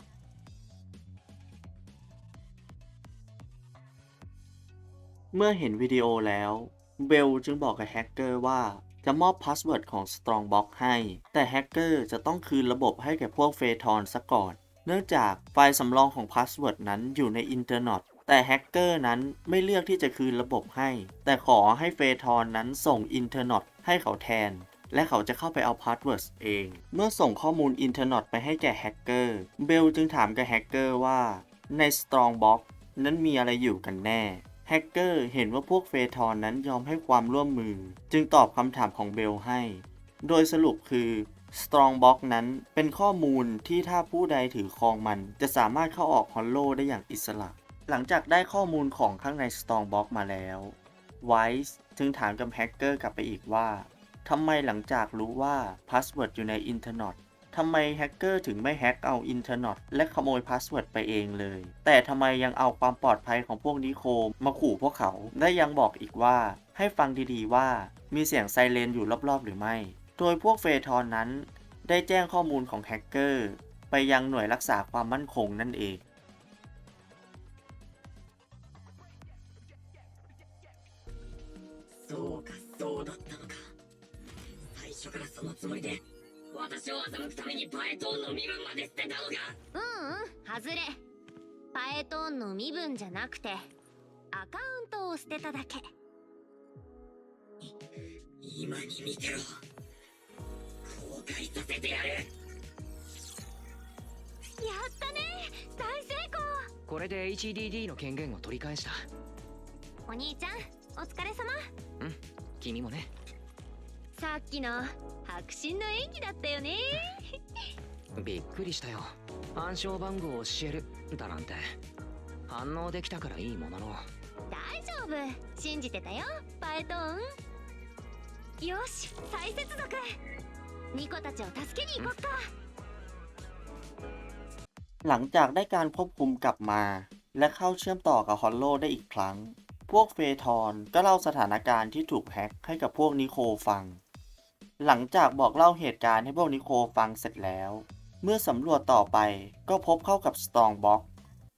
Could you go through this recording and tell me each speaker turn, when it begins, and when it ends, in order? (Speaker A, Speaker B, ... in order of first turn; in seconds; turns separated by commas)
Speaker A: 5.3-76.0, Speaker B: 82.1-83.6, Speaker B: 84.8-89.5, Speaker C: 89.7-91.0, Speaker C: 91.7-93.7, Speaker C: 94.3-95.8, Speaker B: 98.4-99.5, Speaker B: 101.0-102.2, Speaker C: 104.6-106.7, Speaker D: 106.9-109.0, Speaker C: 110.1-111.6, Speaker D: 112.0-113.1, Speaker C: 114.1-117.2, Speaker D: 118.2-121.8, Speaker D: 122.5-124.1, Speaker C: 124.5-127.2, Speaker C: 128.6-130.1, Speaker C: 130.9-132.5, Speaker A: 135.0-144.0, Speaker A: 144.8-151.1